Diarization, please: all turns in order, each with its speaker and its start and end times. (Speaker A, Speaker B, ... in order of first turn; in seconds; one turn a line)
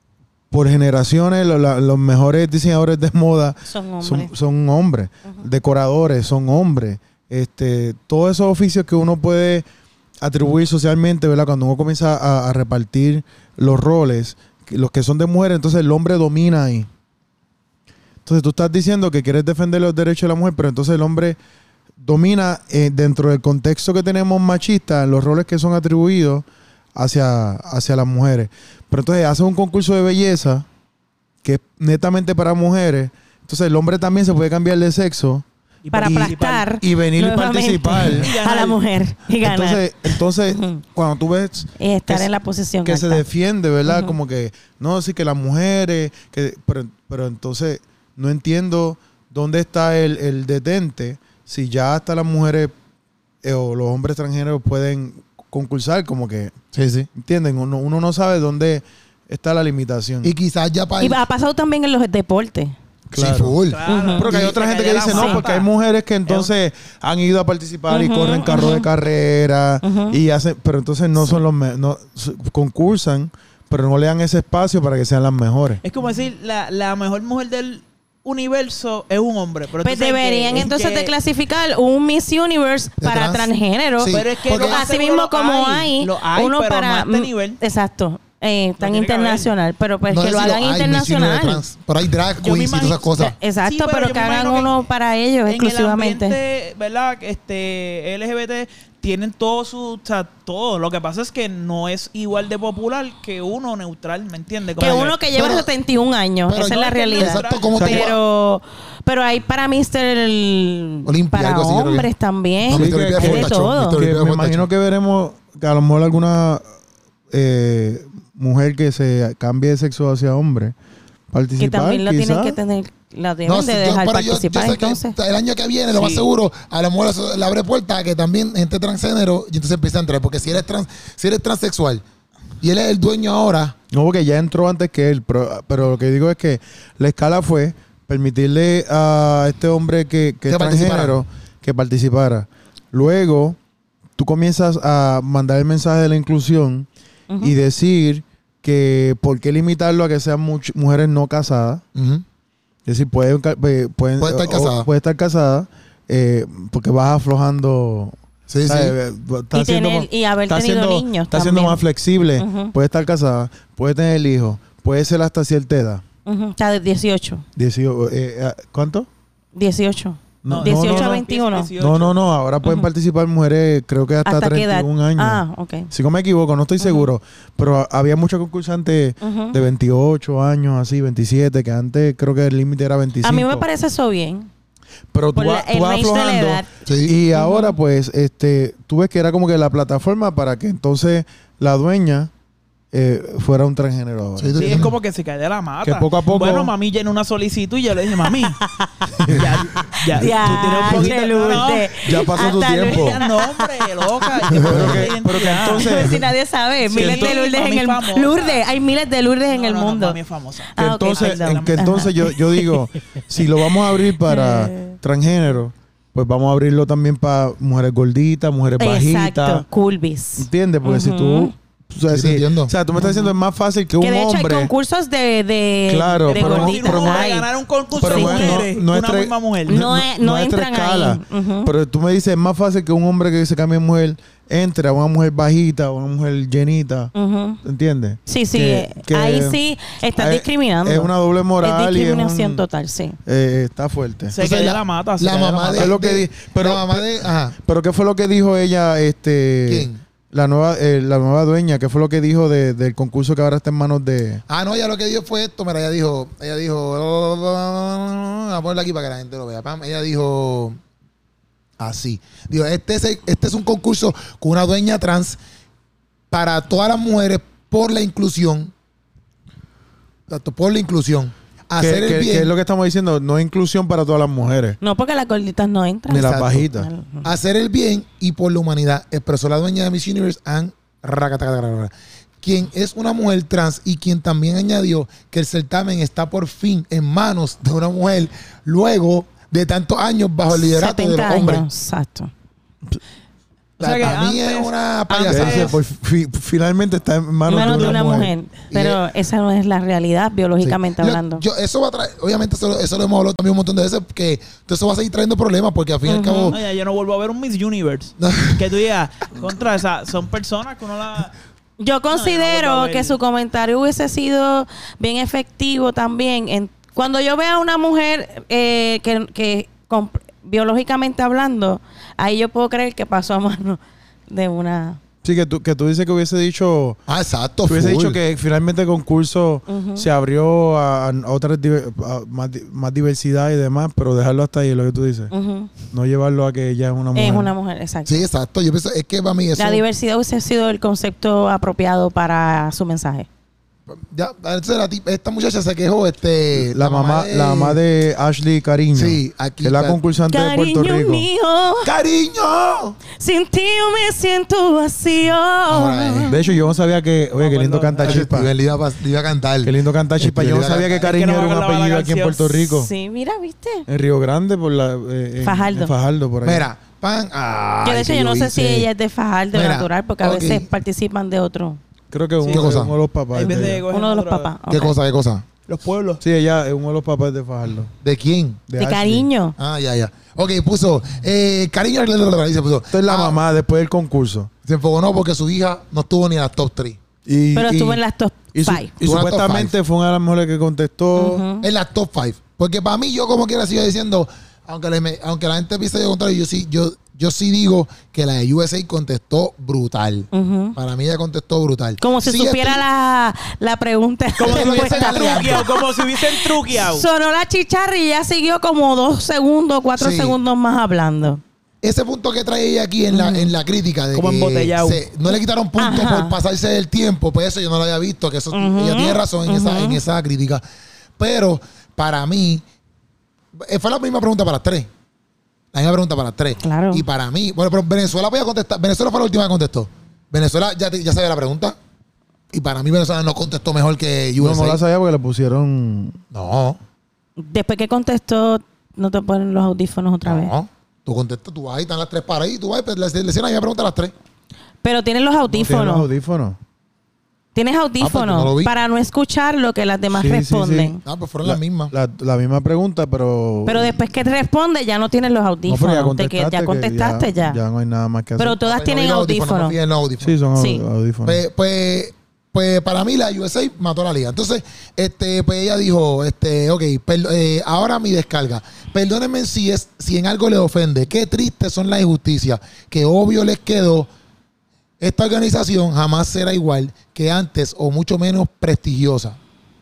Speaker A: 0.5-9.6
Speaker B: 3.6-4.3
Speaker A: 10.2-16.9
Speaker A: 18.2-21.4
Speaker A: 22.0-30.6
Speaker A: 31.4-35.4
Speaker C: 35.8-36.7
Speaker B: 35.9-40.8
Speaker A: 36.0-38.3
Speaker C: 38.1-38.8
Speaker A: 39.4-42.3
Speaker B: 41.8-43.2
Speaker A: 42.8-52.7
Speaker B: 43.9-44.1
Speaker A: 53.4-56.5
Speaker D: 56.7-57.1
Speaker A: 57.1-60.3
Speaker D: 60.2-61.2
Speaker B: 61.0-62.7
Speaker A: 63.1-63.6
Speaker D: 63.1-63.8
Speaker C: 63.7-65.7
Speaker B: 63.9-64.4
Speaker A: 64.2-75.8
Speaker B: 65.1-65.4
Speaker C: 66.2-66.5
Speaker B: 67.9-68.9
Speaker B: 69.8-70.2
Speaker C: 75.8-81.1
Speaker B: 79.8-91.6
Speaker D: 83.0-84.8
Speaker C: 84.1-87.6
Speaker C: 88.8-89.5
Speaker D: 90.1-93.3
Speaker C: 92.4-94.7
Speaker B: 93.2-96.4
Speaker C: 95.5-105.2
Speaker B: 104.8-114.0
Speaker D: 105.3-105.7
Speaker D: 106.5-108.2
Speaker C: 106.6-108.0
Speaker D: 111.0-112.1
Speaker D: 112.7-114.7
Speaker A: 112.7-116.6
Speaker A: 117.3-120.7
Speaker A: 121.3-122.6
Speaker B: 121.6-125.2
Speaker D: 123.5-132.0
Speaker C: 125.9-126.2
Speaker D: 132.6-133.8
Speaker A: 133.9-143.6
Speaker D: 140.5-141.2
Speaker A: 144.2-146.9
Speaker B: 147.3-147.5
Speaker A: 147.4-151.8
Speaker D: 151.9-152.2
Speaker A: 152.8-166.0
Speaker D: 154.2-154.9
Speaker D: 158.5-158.9
Speaker B: 159.5-161.8
Speaker B: 162.4-162.7
Speaker B: 166.2-167.4
Speaker A: 167.6-169.1
Speaker B: 169.5-171.7
Speaker A: 170.4-171.2
Speaker C: 170.5-172.2
Speaker A: 171.8-183.7
Speaker B: 172.6-172.9
Speaker B: 174.2-175.9
Speaker B: 176.8-177.1
Speaker B: 179.2-179.6
Speaker B: 183.2-184.5
Speaker A: 185.1-192.3
Speaker B: 185.3-186.7
Speaker D: 186.8-187.1
Speaker B: 187.3-187.8
Speaker A: 192.9-194.9
Speaker D: 194.4-194.9
Speaker C: 194.6-198.6
Speaker A: 195.8-196.7
Speaker B: 198.5-198.9
Speaker A: 199.2-199.5
Speaker C: 199.2-206.1
Speaker B: 200.1-203.7
Speaker A: 200.2-201.1
Speaker A: 202.0-203.2
Speaker B: 204.3-204.7
Speaker A: 204.5-206.2
Speaker D: 204.5-205.0
Speaker B: 205.7-210.2
Speaker C: 206.8-208.6
Speaker A: 206.9-207.3
Speaker C: 209.5-212.1
Speaker B: 210.8-212.8
Speaker A: 210.8-219.6
Speaker B: 214.2-214.9
Speaker B: 218.8-221.5
Speaker A: 220.4-224.7
Speaker D: 222.1-222.7
Speaker B: 223.0-223.3
Speaker B: 224.0-227.5
Speaker A: 225.9-227.3
Speaker C: 226.3-229.8
Speaker A: 228.0-237.1
Speaker B: 228.0-228.6
Speaker B: 229.7-231.7
Speaker B: 237.1-237.6
Speaker A: 237.6-239.6
Speaker B: 238.3-243.2
Speaker A: 240.2-242.6
Speaker A: 243.2-244.4
Speaker C: 244.3-245.9
Speaker D: 244.4-247.6
Speaker A: 245.7-254.4
Speaker D: 249.7-250.0
Speaker D: 254.5-260.8
Speaker D: 261.8-265.4
Speaker D: 266.3-268.7
Speaker D: 270.3-272.5
Speaker A: 271.8-274.8
Speaker B: 274.8-277.3
Speaker A: 276.1-276.9
Speaker D: 276.1-276.7
Speaker D: 277.2-291.6
Speaker B: 290.5-292.3
Speaker C: 293.8-295.8
Speaker D: 293.8-295.8
Speaker A: 295.3-298.3
Speaker B: 297.5-301.4
Speaker C: 297.5-298.0
Speaker D: 298.7-299.0
Speaker D: 300.6-306.6
Speaker B: 306.1-306.6
Speaker C: 306.5-311.3
Speaker D: 308.2-308.6
Speaker B: 311.8-325.0
Speaker C: 312.1-313.2
Speaker A: 325.2-327.0
Speaker D: 327.1-328.2
Speaker A: 327.7-335.3
Speaker B: 329.7-330.1
Speaker B: 335.3-335.7
Speaker A: 335.9-337.5
Speaker B: 337.1-338.2
Speaker D: 338.1-339.8
Speaker B: 339.6-343.3
Speaker D: 343.9-347.8
Speaker A: 346.6-351.3
Speaker D: 348.9-350.0
Speaker B: 350.3-351.9
Speaker D: 351.8-353.0
Speaker B: 353.2-356.5
Speaker D: 355.7-356.4
Speaker A: 356.3-358.5
Speaker C: 357.4-358.3
Speaker D: 358.0-361.1
Speaker A: 359.6-362.9
Speaker C: 360.9-362.7
Speaker B: 362.7-363.9
Speaker A: 363.9-366.7
Speaker B: 365.4-365.9
Speaker D: 366.4-368.9
Speaker B: 367.8-371.8
Speaker D: 369.5-370.7
Speaker A: 372.1-373.8
Speaker C: 372.4-372.8
Speaker D: 372.5-372.9
Speaker C: 373.3-374.5
Speaker B: 373.4-374.9
Speaker D: 374.7-375.4
Speaker C: 375.7-376.2
Speaker A: 376.2-377.9
Speaker D: 378.0-378.6
Speaker A: 378.7-379.3
Speaker B: 378.8-379.6
Speaker D: 379.6-383.4
Speaker A: 382.9-384.5
Speaker D: 384.6-387.0
Speaker A: 387.2-388.0
Speaker B: 387.5-388.9
Speaker A: 388.5-391.4
Speaker D: 389.0-389.7
Speaker B: 391.1-391.7
Speaker D: 391.6-402.8
Speaker B: 400.3-400.8
Speaker B: 402.0-411.4
Speaker C: 404.4-407.1
Speaker D: 404.4-405.7
Speaker D: 410.0-410.4
Speaker D: 411.8-420.6
Speaker B: 413.1-413.5
Speaker C: 414.1-415.0
Speaker B: 415.8-416.4
Speaker B: 418.5-420.0
Speaker D: 421.2-422.6
Speaker D: 423.6-424.9
Speaker D: 425.7-431.8
Speaker B: 426.6-427.0
Speaker D: 432.5-434.8
Speaker A: 434.4-436.2
Speaker D: 436.3-436.8
Speaker B: 437.4-440.5
Speaker D: 440.2-444.1
Speaker B: 444.8-446.1
Speaker A: 445.5-446.6
Speaker B: 447.5-451.0
Speaker D: 448.0-448.7
Speaker A: 450.1-454.0
Speaker D: 451.0-451.9
Speaker B: 453.6-457.6
Speaker A: 455.7-458.6
Speaker B: 458.4-459.8
Speaker D: 458.6-460.4
Speaker A: 460.2-461.4
Speaker B: 460.5-460.8
Speaker D: 461.2-474.1
Speaker D: 475.0-479.4